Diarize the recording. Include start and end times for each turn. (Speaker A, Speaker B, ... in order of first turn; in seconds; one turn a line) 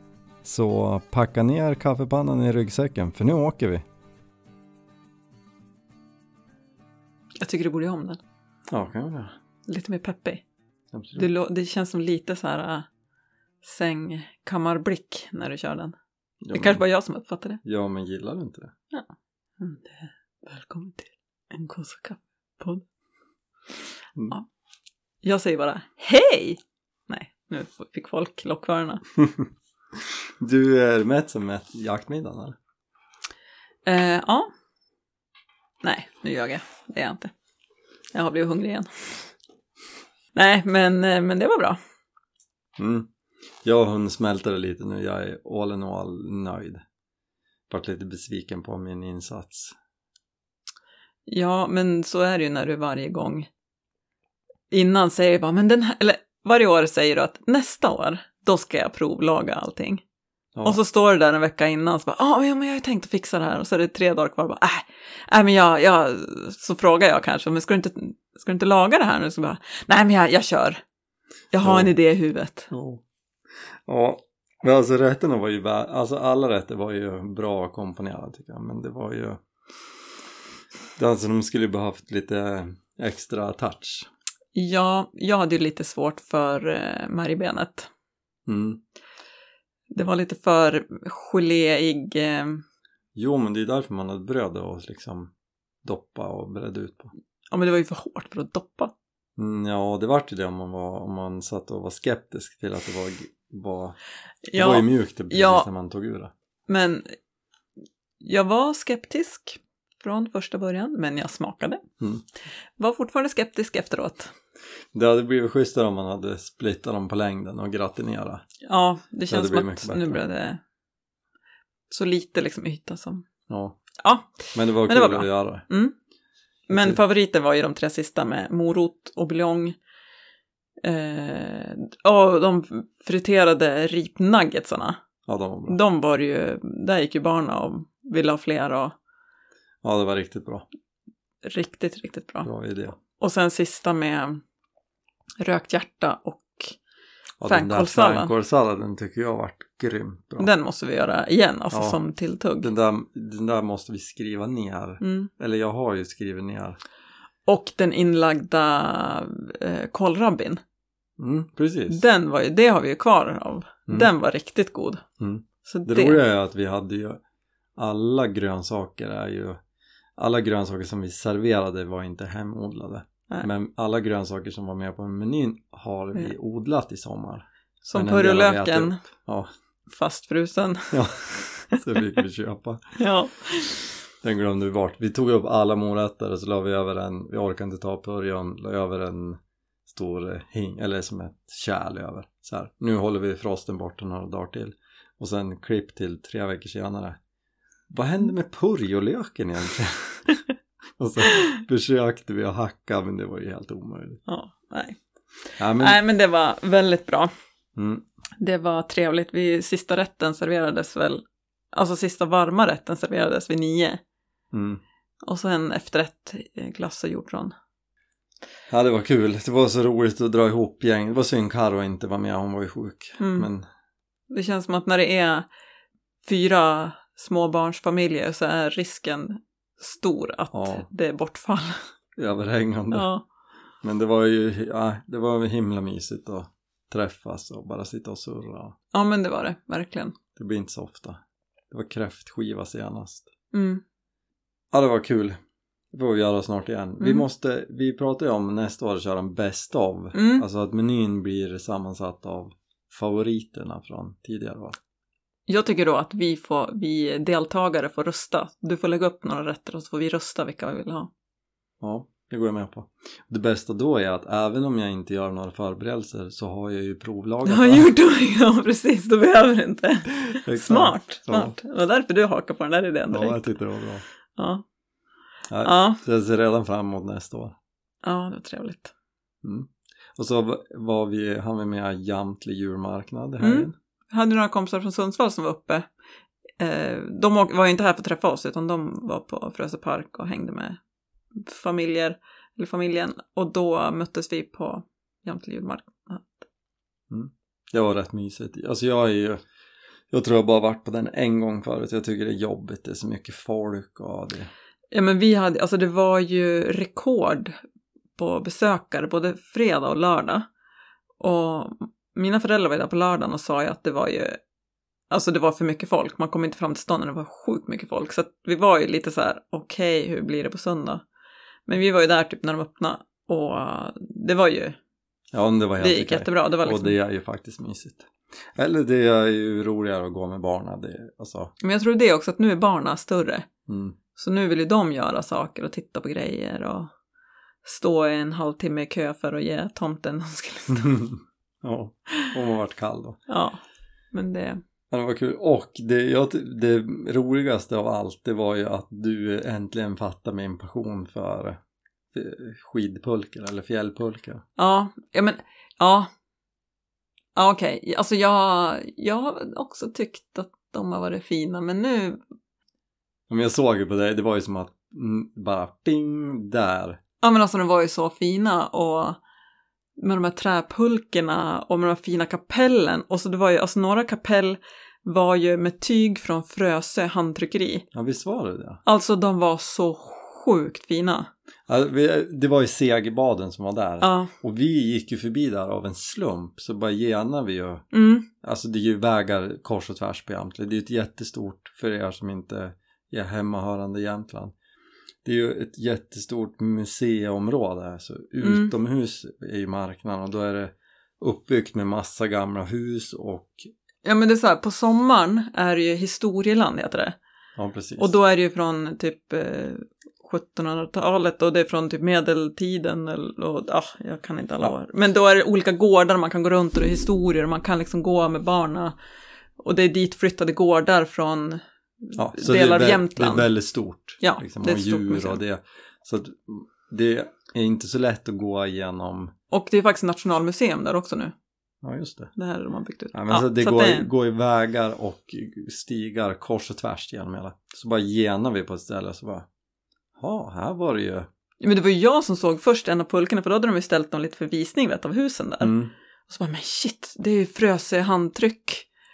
Speaker A: 0.4-3.8
Speaker B: 7.4-8.2
Speaker A: 8.7-9.3
Speaker B: 9.7-10.4
Speaker A: 10.9-11.3
Speaker B: 11.2-12.9
Speaker B: 13.6-16.0
Speaker A: 16.4-16.8
Speaker B: 16.5-17.6
Speaker A: 17.6-18.7
Speaker B: 19.6-22.8
Speaker B: 25.2-29.0
Speaker A: 30.4-32.6
Speaker B: 33.9-34.5
Speaker B: 35.8-37.3
Speaker B: 38.1-39.3
Speaker B: 40.3-41.8
Speaker A: 42.8-43.1
Speaker A: 43.6-46.8
Speaker A: 47.7-49.8
Speaker B: 51.3-53.5
Speaker B: 54.7-60.0
Speaker B: 60.6-70.8
Speaker B: 71.5-72.7
Speaker A: 71.6-71.9
Speaker A: 72.7-73.0
Speaker A: 73.9-79.4
Speaker A: 81.0-84.1
Speaker B: 84.5-87.9
Speaker A: 88.5-88.8
Speaker B: 89.9-92.6
Speaker A: 93.2-95.3
Speaker A: 95.8-97.1
Speaker B: 97.5-98.9
Speaker A: 99.4-104.0
Speaker B: 104.5-105.7
Speaker A: 104.5-106.3
Speaker B: 106.7-107.1
Speaker B: 108.2-111.8
Speaker B: 112.8-114.3
Speaker A: 114.9-118.5
Speaker B: 118.6-120.6
Speaker A: 119.3-120.2
Speaker B: 121.9-123.3
Speaker A: 123.5-123.8
Speaker B: 124.0-125.9
Speaker A: 124.5-125.7
Speaker A: 126.7-127.0
Speaker B: 126.7-129.8
Speaker B: 130.8-135.0
Speaker A: 135.3-135.8
Speaker B: 135.7-139.0
Speaker A: 139.8-140.7
Speaker B: 141.4-144.4
Speaker A: 142.4-143.0
Speaker B: 145.4-146.8
Speaker A: 147.4-150.5
Speaker B: 147.5-148.3
Speaker B: 150.4-152.7
Speaker A: 151.7-152.0
Speaker A: 152.6-156.8
Speaker B: 155.0-155.3
Speaker B: 157.5-160.6
Speaker A: 161.2-162.0
Speaker B: 161.9-165.0
Speaker A: 165.2-167.2
Speaker B: 165.7-166.2
Speaker A: 167.8-169.6
Speaker A: 170.2-179.5
Speaker B: 177.8-179.0
Speaker B: 179.9-180.9
Speaker A: 180.9-183.0
Speaker B: 183.0-183.8
Speaker A: 184.2-197.2
Speaker A: 197.9-200.4
Speaker A: 201.0-204.2
Speaker B: 204.3-205.0
Speaker A: 205.6-206.0
Speaker B: 205.8-207.3
Speaker A: 207.8-208.0
Speaker B: 208.4-214.0
Speaker A: 214.5-214.8
Speaker B: 215.2-217.5
Speaker A: 218.7-223.7
Speaker B: 223.2-223.5
Speaker B: 224.3-225.5
Speaker B: 226.2-231.8
Speaker A: 230.5-230.9
Speaker A: 232.2-233.1
Speaker B: 232.9-233.2
Speaker A: 233.8-238.8
Speaker B: 238.9-240.2
Speaker A: 240.3-241.2
Speaker A: 241.7-243.3
Speaker B: 243.5-243.8
Speaker A: 244.7-245.4
Speaker A: 245.9-254.8
Speaker B: 247.0-247.3
Speaker B: 250.1-250.4
Speaker B: 255.5-261.1
Speaker A: 261.8-267.9
Speaker B: 267.5-273.4
Speaker A: 270.3-271.6
Speaker A: 273.1-274.0
Speaker B: 274.4-274.6
Speaker A: 275.5-277.6
Speaker B: 275.6-276.0
Speaker B: 278.0-278.9
Speaker A: 279.4-283.7
Speaker B: 283.4-285.9
Speaker B: 286.6-290.8
Speaker B: 291.3-296.4
Speaker A: 297.1-299.4
Speaker A: 300.1-304.5
Speaker B: 304.9-307.6
Speaker B: 308.2-310.5
Speaker B: 311.2-314.4
Speaker B: 315.1-321.0
Speaker B: 321.7-324.8
Speaker A: 325.3-331.5
Speaker B: 325.8-327.0
Speaker B: 331.6-333.5
Speaker A: 333.7-334.0
Speaker B: 334.2-336.9
Speaker B: 337.6-340.9
Speaker A: 340.7-343.2
Speaker B: 343.3-343.6
Speaker B: 344.1-344.6
Speaker A: 344.9-351.6
Speaker A: 352.1-354.4
Speaker B: 354.6-356.1
Speaker B: 357.4-362.2
Speaker A: 363.3-367.0
Speaker B: 367.2-369.2
Speaker B: 370.0-377.9
Speaker A: 377.9-378.8
Speaker B: 378.9-381.3
Speaker A: 381.7-387.9
Speaker B: 384.0-384.3
Speaker B: 387.9-388.3
Speaker A: 388.4-394.5
Speaker A: 395.2-403.7
Speaker B: 398.4-398.7
Speaker B: 404.0-407.2
Speaker A: 407.6-408.1
Speaker B: 408.0-418.9
Speaker B: 419.6-423.5
Speaker A: 422.1-429.3
Speaker B: 424.2-425.4
Speaker B: 429.5-431.3
Speaker A: 431.8-432.3
Speaker B: 432.4-434.1
Speaker A: 433.1-439.5
Speaker A: 440.2-441.3
Speaker B: 441.6-445.8
Speaker A: 445.6-445.9
Speaker B: 446.3-448.9